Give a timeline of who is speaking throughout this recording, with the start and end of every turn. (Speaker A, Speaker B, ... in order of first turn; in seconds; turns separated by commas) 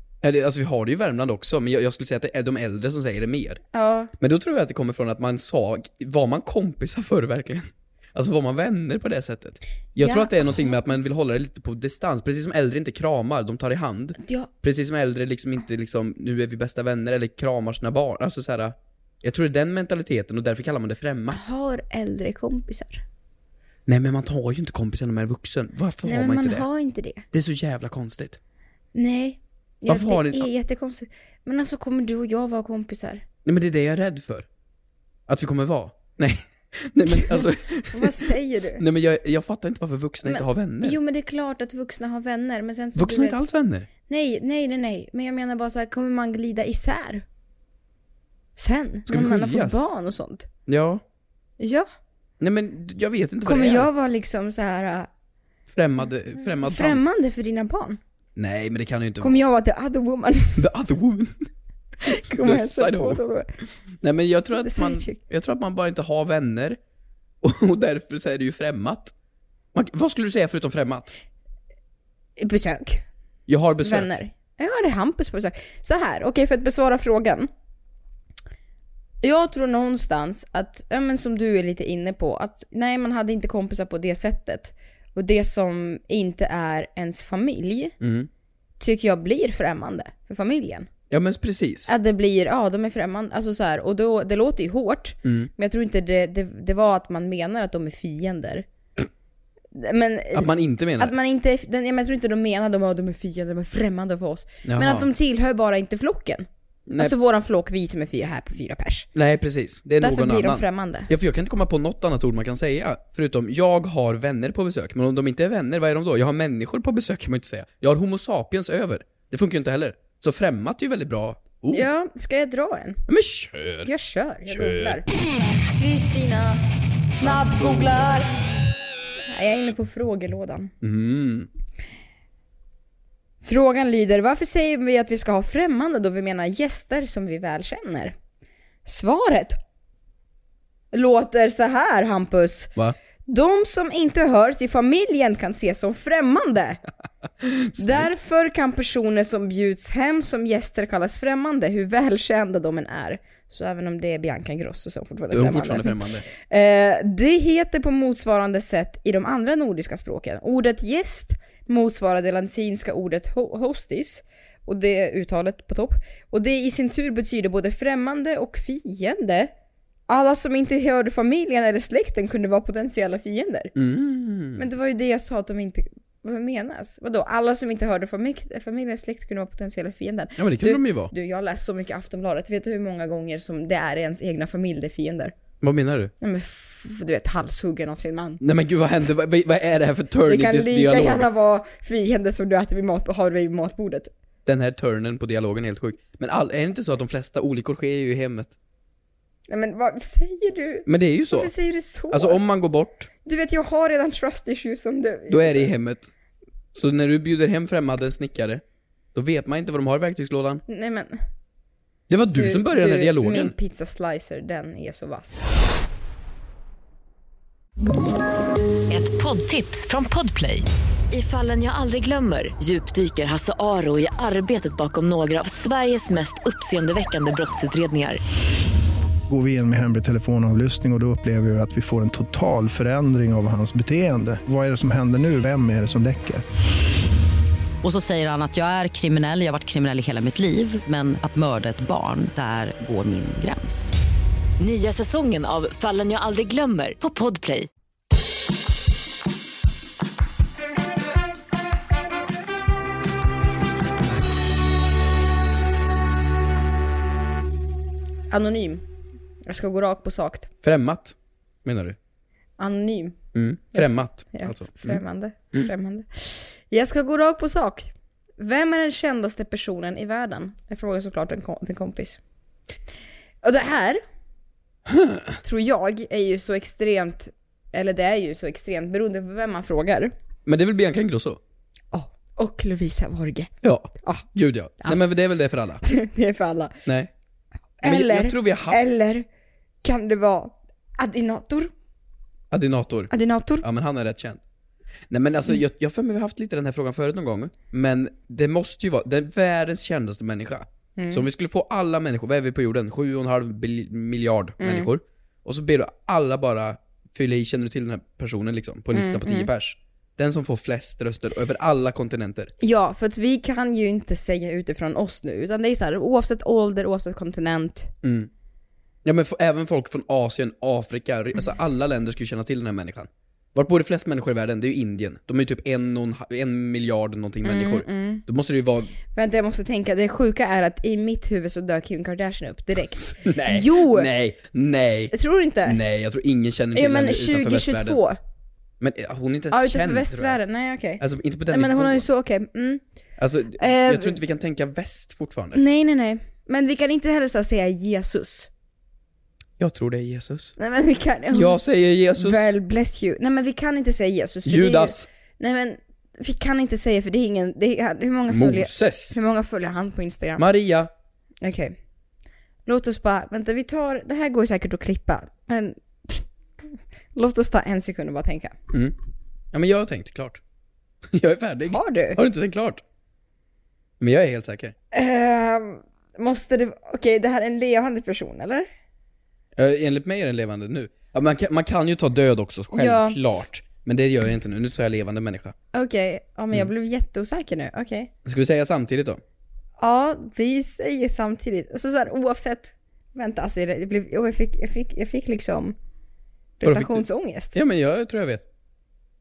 Speaker A: 0.2-3.6, Speaker B: 3.7-4.1, Speaker A: 4.2-21.5, Speaker B: 10.0-10.8, Speaker B: 14.2-14.5, Speaker B: 21.3-23.0, Speaker A: 23.9-26.7, Speaker B: 26.0-27.2, Speaker A: 27.3-28.4, Speaker B: 28.9-33.2, Speaker A: 29.9-30.5, Speaker A: 33.5-34.5, Speaker A: 35.3-41.0, Speaker B: 37.1-38.8, Speaker B: 40.2-43.4, Speaker A: 43.0-43.9, Speaker B: 44.1-47.2, Speaker B: 48.6-50.5, Speaker A: 49.1-49.9, Speaker A: 50.7-51.0, Speaker B: 51.6-51.9, Speaker A: 52.4-53.9, Speaker B: 53.4-55.1, Speaker A: 55.7-57.1, Speaker B: 56.6-58.0, Speaker A: 58.4-59.4, Speaker B: 59.2-60.6, Speaker A: 60.6-61.4, Speaker B: 62.0-63.5, Speaker A: 62.2-63.2, Speaker A: 64.0-66.8, Speaker B: 64.6-65.2, Speaker A: 67.4-69.1, Speaker A: 69.7-71.1, Speaker B: 72.4-73.0, Speaker A: 73.5-74.2, Speaker B: 73.8-77.5, Speaker B: 79.2-87.9, Speaker A: 88.0-88.3, Speaker B: 88.8-90.9, Speaker A: 91.1-91.9, Speaker B: 91.9-98.7, Speaker A: 95.2-95.5, Speaker B: 99.8-109.1, Speaker A: 100.3-101.1, Speaker A: 104.7-105.1, Speaker A: 106.9-107.1, Speaker A: 109.1-121.9, Speaker B: 110.0-111.1, Speaker B: 121.7-123.0, Speaker A: 123.1-123.9, Speaker B: 123.8-125.1, Speaker A: 124.5-125.0, Speaker B: 125.8-128.3, Speaker A: 127.2-128.0, Speaker B: 129.3-130.7, Speaker A: 130.8-131.5, Speaker B: 133.4-138.2, Speaker B: 138.8-139.6, Speaker B: 140.9-142.7, Speaker B: 143.3-146.8, Speaker A: 147.4-148.2, Speaker B: 147.8-169.5, Speaker A: 155.3-156.2, Speaker B: 170.1-173.7, Speaker A: 173.8-174.7, Speaker B: 174.6-185.3, Speaker A: 180.4-181.1, Speaker A: 185.6-186.1, Speaker B: 186.2-188.4, Speaker A: 188.4-191.3, Speaker B: 190.3-194.1, Speaker A: 194.5-198.5, Speaker B: 199.5-202.4, Speaker A: 200.9-201.5, Speaker A: 202.1-203.1, Speaker B: 203.2-205.7, Speaker A: 205.3-206.1, Speaker A: 206.7-208.6, Speaker A: 209.2-210.6, Speaker B: 210.7-211.2, Speaker A: 212.1-213.5, Speaker B: 212.4-215.4, Speaker C: 218.9-228.2, Speaker D: 229.3-236.4, Speaker E: 237.8-243.9, Speaker C: 244.6-247.7, Speaker B: 258.3-258.8, Speaker B: 259.5-260.5, Speaker A: 260.6-262.0, Speaker B: 262.6-263.2, Speaker A: 263.3-265.0, Speaker B: 263.7-272.2, Speaker B: 273.4-274.0, Speaker A: 274.9-275.4, Speaker B: 275.4-280.1, Speaker A: 280.5-281.4, Speaker B: 281.9-283.5, Speaker A: 283.6-285.8, Speaker B: 285.9-286.8, Speaker A: 286.9-287.1, Speaker B: 287.8-289.2, Speaker A: 287.8-288.8, Speaker B: 289.8-291.7, Speaker A: 292.5-294.4, Speaker B: 293.1-293.7, Speaker A: 295.1-312.5, Speaker B: 301.0-301.3, Speaker B: 304.6-304.9, Speaker B: 308.9-309.5, Speaker B: 312.6-317.9, Speaker A: 318.0-318.3, Speaker A: 319.1-328.9, Speaker B: 327.4-328.2, Speaker B: 329.1-334.1, Speaker A: 333.1-335.1, Speaker B: 335.1-335.8, Speaker A: 335.6-338.0, Speaker B: 336.7-338.2, Speaker A: 338.8-340.4, Speaker B: 339.5-342.8, Speaker A: 341.0-342.1, Speaker A: 343.2-345.6, Speaker B: 343.6-344.2, Speaker B: 345.5-348.5, Speaker A: 349.6-350.6, Speaker B: 350.6-351.6, Speaker A: 351.3-352.6, Speaker B: 352.2-360.4, Speaker A: 354.4-355.1, Speaker A: 358.3-359.2, Speaker A: 360.4-360.9, Speaker B: 361.4-361.8, Speaker B: 362.7-366.3, Speaker B: 367.1-368.6, Speaker A: 369.5-370.4, Speaker A: 371.1-372.8, Speaker B: 371.7-372.2, Speaker A: 374.0-374.7, Speaker B: 374.9-378.7, Speaker A: 379.6-385.6, Speaker B: 382.7-383.2, Speaker B: 385.7-388.1, Speaker A: 388.2-389.2, Speaker B: 389.8-395.8, Speaker B: 396.6-397.6, Speaker A: 396.6-398.4